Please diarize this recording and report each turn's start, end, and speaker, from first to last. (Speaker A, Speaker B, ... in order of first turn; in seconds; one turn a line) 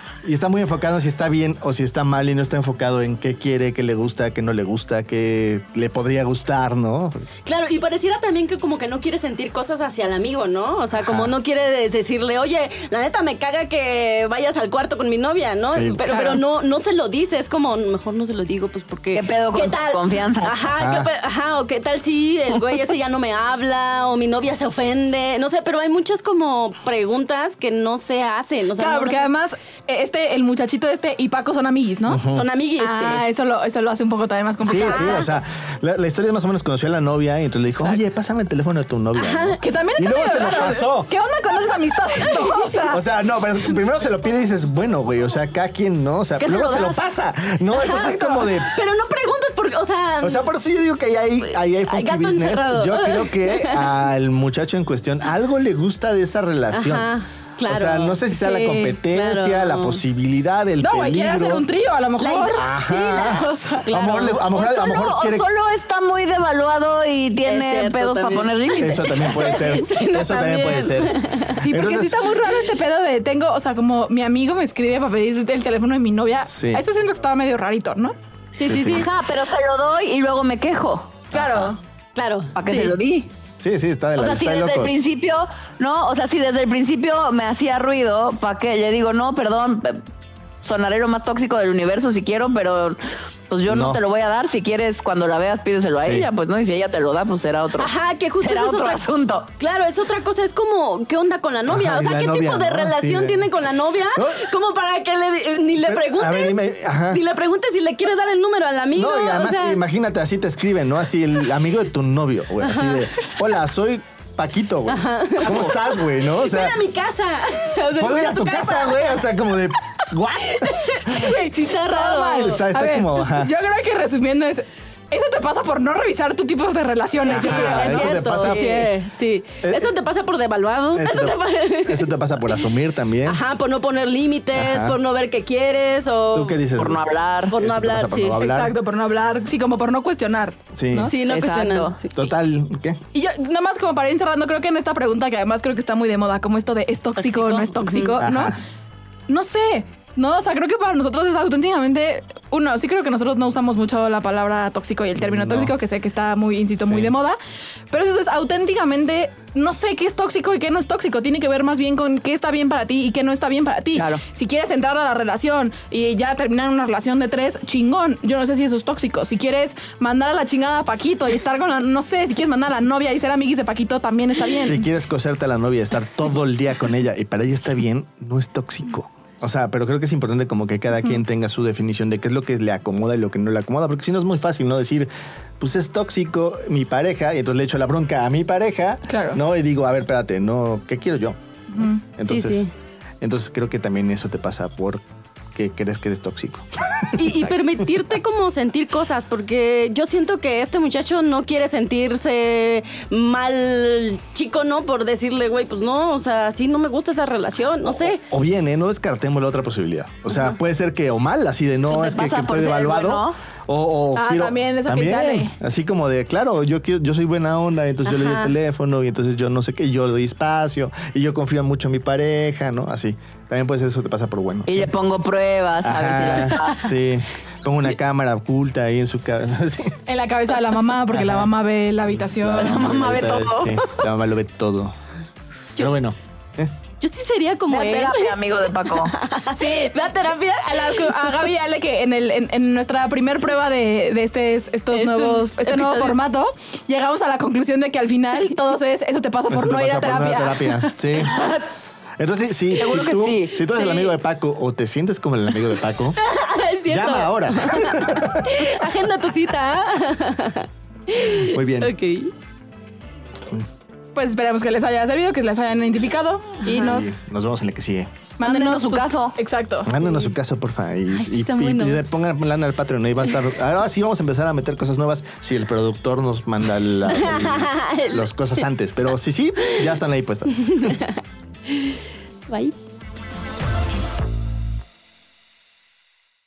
Speaker A: 0.2-7.2
Speaker B: 7.5-29.3
Speaker A: 11.0-11.3
Speaker A: 15.7-16.0
Speaker C: 16.0-16.4
Speaker D: 19.1-20.6
Speaker A: 20.8-21.1
Speaker C: 28.8-32.2
Speaker A: 32.0-32.5
Speaker B: 32.3-33.2
Speaker C: 32.8-35.3
Speaker A: 34.6-41.1
Speaker B: 34.7-35.3
Speaker B: 39.1-39.6
Speaker C: 39.6-43.0
Speaker B: 41.8-42.8
Speaker A: 42.9-48.8
Speaker D: 46.5-46.9
Speaker B: 47.7-50.5
Speaker A: 50.2-57.1
Speaker B: 51.4-53.9
Speaker B: 56.7-60.0
Speaker A: 57.6-61.7
Speaker C: 60.8-63.9
Speaker B: 62.2-64.5
Speaker A: 62.5-65.5
Speaker D: 64.5-69.4
Speaker B: 67.4-71.6
Speaker A: 68.8-72.3
Speaker C: 71.6-79.0
Speaker A: 76.5-76.8
Speaker A: 78.6-79.1
Speaker D: 78.9-81.2
Speaker C: 81.3-81.8
Speaker A: 81.3-81.7
Speaker B: 82.2-83.0
Speaker D: 82.5-83.3
Speaker A: 83.6-85.0
Speaker D: 84.2-90.0
Speaker D: 90.6-99.5
Speaker A: 93.7-94.0
Speaker A: 96.0-96.3
Speaker B: 97.8-99.1
Speaker B: 99.6-109.8
Speaker A: 101.7-103.5
Speaker A: 104.1-104.5
Speaker A: 105.8-107.2
Speaker A: 108.9-116.8
Speaker B: 112.6-113.1
Speaker B: 114.9-119.3
Speaker A: 117.9-121.2
Speaker B: 120.5-122.6
Speaker C: 121.1-128.9
Speaker A: 122.3-123.5
Speaker A: 127.2-128.7
Speaker B: 127.2-132.6
Speaker A: 129.6-129.9
Speaker A: 130.9-133.4
Speaker B: 133.2-136.6
Speaker A: 134.5-135.0
Speaker A: 136.3-137.0
Speaker D: 136.8-137.5
Speaker B: 137.5-138.4
Speaker A: 137.5-138.8
Speaker C: 138.4-141.1
Speaker A: 140.7-141.1
Speaker B: 141.0-142.1
Speaker D: 141.2-142.0
Speaker A: 142.1-143.0
Speaker C: 143.1-148.6
Speaker B: 147.2-148.2
Speaker A: 148.2-148.6
Speaker C: 149.3-157.4
Speaker A: 155.2-155.7
Speaker A: 156.8-157.1
Speaker C: 157.9-174.8
Speaker D: 163.9-164.2
Speaker A: 174.5-192.7
Speaker C: 189.1-189.4
Speaker C: 191.7-192.0
Speaker B: 192.2-192.7
Speaker A: 193.2-195.0
Speaker A: 195.5-197.4
Speaker B: 197.2-208.2
Speaker A: 207.8-224.9
Speaker D: 211.8-213.4
Speaker C: 214.1-215.5
Speaker B: 218.1-218.5
Speaker D: 224.7-226.9
Speaker A: 225.8-230.0
Speaker C: 230.1-233.0
Speaker A: 231.1-231.5
Speaker A: 232.1-234.9
Speaker D: 232.6-233.9
Speaker A: 235.8-236.7
Speaker B: 237.0-241.4
Speaker D: 237.7-239.2
Speaker C: 239.5-251.0
Speaker D: 244.9-246.0
Speaker B: 245.7-246.1
Speaker A: 249.5-251.4
Speaker D: 251.2-251.6
Speaker A: 252.2-256.2
Speaker D: 252.8-254.0
Speaker B: 256.2-262.3
Speaker A: 256.9-258.7
Speaker A: 261.4-261.9
Speaker C: 264.1-267.1
Speaker A: 266.7-268.1
Speaker C: 268.4-269.9
Speaker D: 268.4-269.4
Speaker A: 269.8-280.9
Speaker B: 271.1-272.1
Speaker B: 277.1-278.6
Speaker B: 279.7-279.9
Speaker B: 280.7-281.1
Speaker B: 282.5-282.8